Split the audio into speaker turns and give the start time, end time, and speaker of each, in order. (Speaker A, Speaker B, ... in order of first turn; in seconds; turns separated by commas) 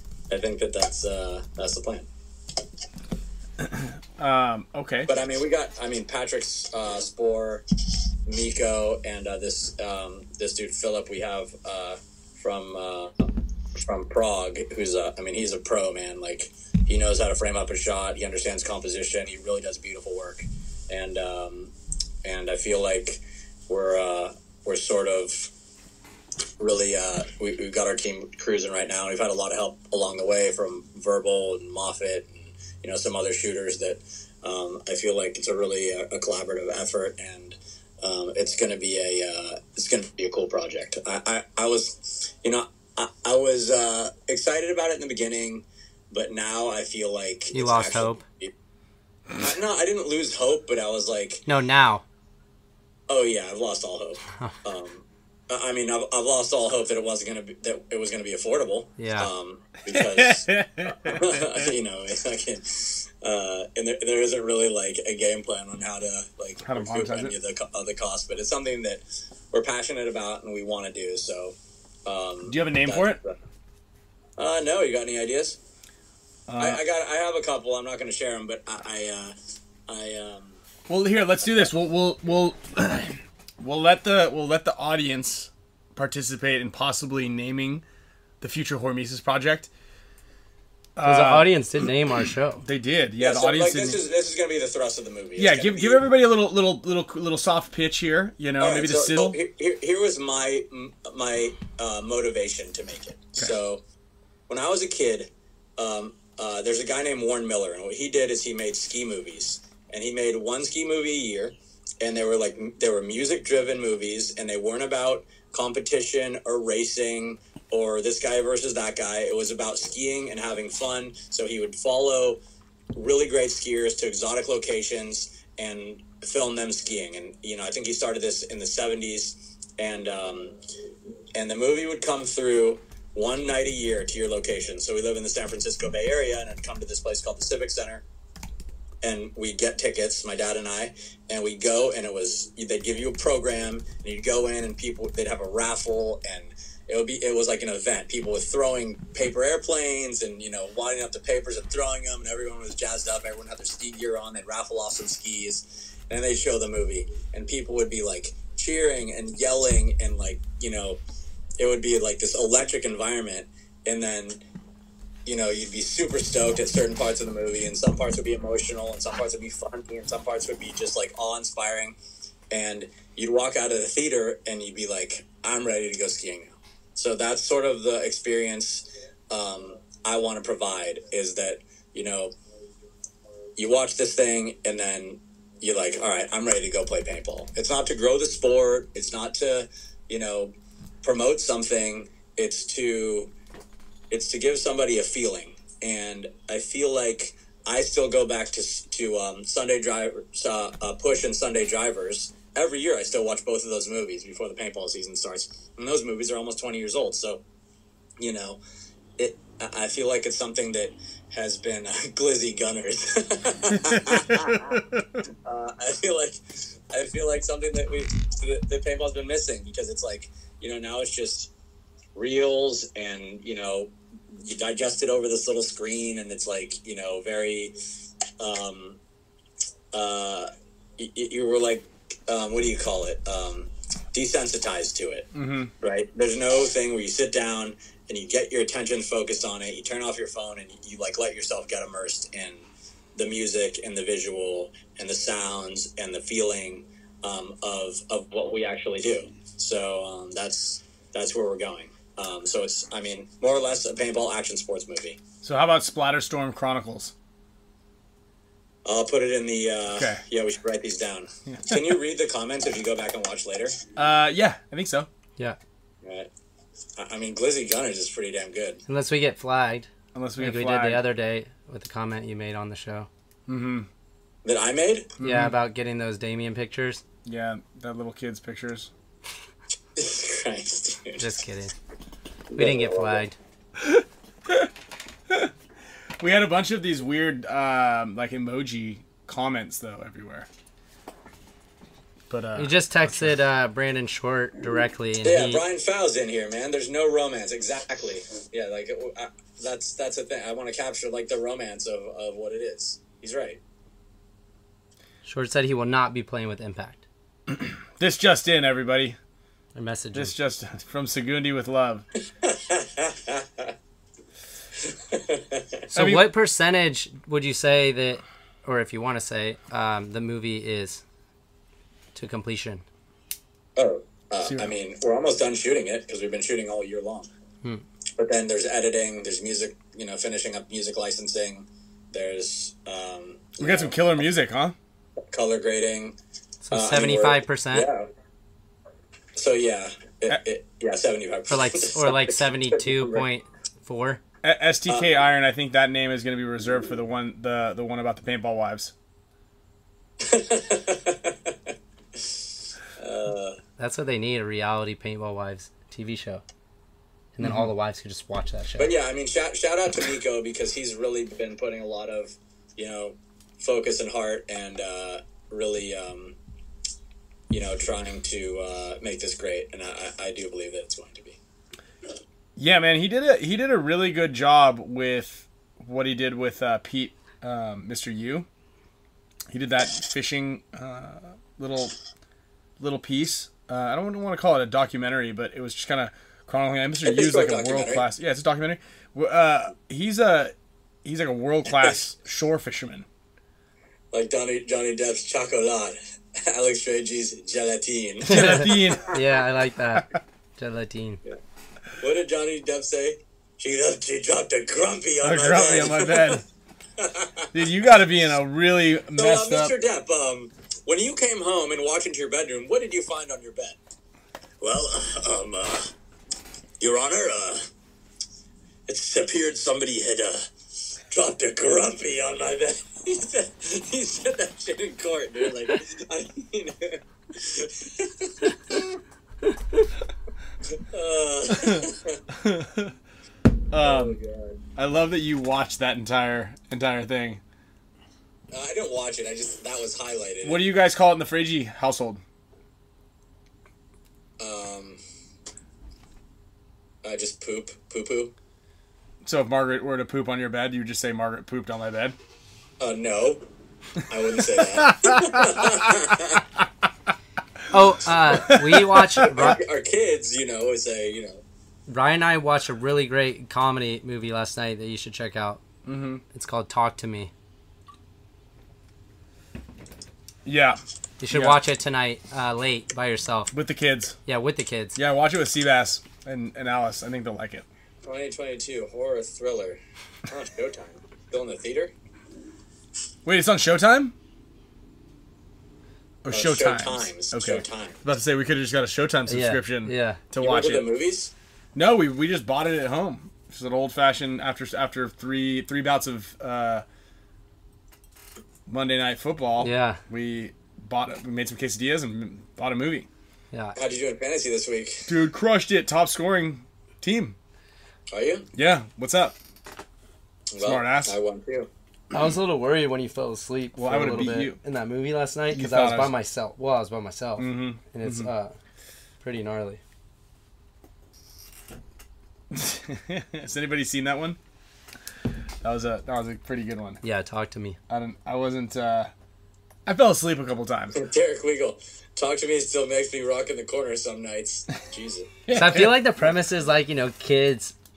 Speaker A: 0.3-2.1, Speaker B: 3.6-5.1, Speaker A: 5.1-7.6, Speaker A: 8.3-21.7, Speaker A: 22.2-25.5, Speaker A: 26.6-48.5, Speaker C: 47.5-48.2, Speaker A: 49.4-51.5, Speaker C: 51.5-52.0, Speaker A: 53.1-73.4, Speaker C: 59.0-59.3, Speaker B: 59.9-61.7, Speaker B: 66.6-67.3, Speaker B: 72.5-73.2, Speaker A: 74.4-75.6, Speaker B: 76.5-76.8, Speaker A: 76.6-79.3, Speaker A: 79.9-80.6, Speaker B: 80.9-87.8, Speaker B: 88.4-89.7, Speaker B: 91.0-91.6, Speaker C: 91.0-92.6, Speaker B: 92.6-94.0, Speaker A: 93.2-96.0, Speaker B: 95.4-99.4, Speaker A: 98.6-103.8, Speaker A: 104.5-122.4, Speaker A: 122.9-130.6, Speaker A: 131.3-138.0, Speaker A: 139.0-161.0, Speaker A: 161.6-164.4, Speaker A: 165.3-172.0, Speaker A: 172.5-182.3, Speaker A: 183.6-193.3, Speaker A: 194.1-207.4, Speaker A: 208.2-208.6, Speaker A: 209.2-214.8, Speaker B: 213.7-215.2, Speaker A: 215.4-221.5, Speaker A: 222.1-227.7, Speaker A: 228.4-229.0, Speaker A: 229.9-235.3, Speaker B: 235.3-235.7, Speaker A: 235.8-255.2, Speaker B: 255.4-257.1, Speaker A: 258.8-263.8, Speaker B: 259.9-260.2, Speaker B: 261.5-261.9, Speaker B: 263.9-265.1, Speaker A: 266.0-266.3, Speaker A: 267.0-268.8, Speaker C: 268.9-273.1, Speaker B: 270.1-271.0, Speaker B: 273.5-273.9, Speaker A: 274.4-275.1, Speaker B: 275.2-275.6, Speaker C: 275.2-277.0, Speaker B: 277.2-278.9, Speaker A: 279.9-281.3, Speaker C: 281.2-281.7, Speaker A: 282.5-283.2, Speaker C: 282.6-283.4, Speaker B: 283.8-284.7, Speaker B: 286.2-290.5, Speaker B: 292.3-293.4, Speaker C: 292.6-295.6, Speaker A: 295.2-303.6, Speaker C: 305.2-307.0, Speaker B: 307.5-309.2, Speaker C: 309.7-310.3, Speaker B: 310.1-312.1, Speaker A: 312.4-313.7, Speaker A: 315.1-315.8, Speaker C: 315.9-321.0, Speaker B: 315.9-316.3, Speaker C: 322.1-322.8, Speaker A: 323.8-327.3, Speaker B: 324.4-324.7, Speaker A: 328.2-334.0, Speaker B: 333.6-334.8, Speaker A: 335.3-336.2, Speaker C: 336.6-337.9, Speaker A: 336.7-338.1, Speaker A: 339.3-343.2, Speaker C: 341.5-344.2, Speaker B: 344.4-348.9, Speaker A: 350.2-351.6, Speaker A: 353.0-353.6, Speaker C: 353.8-356.4, Speaker C: 357.4-358.9, Speaker B: 357.4-357.7, Speaker A: 358.8-366.4, Speaker A: 367.5-371.4, Speaker B: 372.6-378.5, Speaker B: 379.5-381.9, Speaker B: 382.8-390.5, Speaker A: 387.0-388.1, Speaker B: 391.1-393.1, Speaker A: 394.1-399.0, Speaker B: 398.3-399.2, Speaker C: 398.3-401.2, Speaker A: 402.0-406.4, Speaker B: 405.2-406.4, Speaker A: 407.0-407.5, Speaker B: 407.5-409.7, Speaker A: 409.2-413.8, Speaker A: 414.6-415.9, Speaker A: 416.8-417.6, Speaker A: 418.9-420.4, Speaker A: 421.1-428.8, Speaker A: 430.8-432.2, Speaker B: 431.5-432.9, Speaker B: 433.7-434.2, Speaker A: 433.8-434.6, Speaker B: 434.8-437.4, Speaker A: 438.5-440.6, Speaker B: 440.4-442.2, Speaker A: 444.4-445.0, Speaker A: 447.0-448.3, Speaker B: 449.2-452.2, Speaker A: 452.8-453.4, Speaker A: 454.1-456.4, Speaker B: 454.6-456.2, Speaker C: 457.7-459.6, Speaker B: 458.3-459.3, Speaker A: 459.3-461.4, Speaker C: 461.9-465.6, Speaker B: 465.8-466.2, Speaker C: 466.3-467.3, Speaker B: 470.4-471.6, Speaker C: 471.2-473.5, Speaker B: 473.5-474.2, Speaker C: 474.3-475.0, Speaker B: 474.9-477.7, Speaker A: 478.1-481.9, Speaker B: 483.2-484.1, Speaker B: 486.2-490.9, Speaker A: 486.3-488.0, Speaker C: 489.3-490.2, Speaker A: 490.4-491.3, Speaker B: 491.7-496.8, Speaker B: 498.7-503.1, Speaker C: 499.6-500.0, Speaker A: 503.7-505.1, Speaker B: 505.1-507.4, Speaker A: 508.1-508.5, Speaker B: 508.6-509.4, Speaker A: 510.5-511.7, Speaker B: 510.6-511.2, Speaker C: 512.1-518.5, Speaker B: 513.8-514.6, Speaker B: 515.5-516.1, Speaker B: 517.4-518.3, Speaker C: 519.2-519.8, Speaker B: 522.5-524.4, Speaker B: 525.6-527.0, Speaker C: 527.0-527.8, Speaker B: 527.9-529.1, Speaker B: 529.9-531.0, Speaker A: 530.9-535.4, Speaker B: 535.5-536.1, Speaker C: 535.5-537.7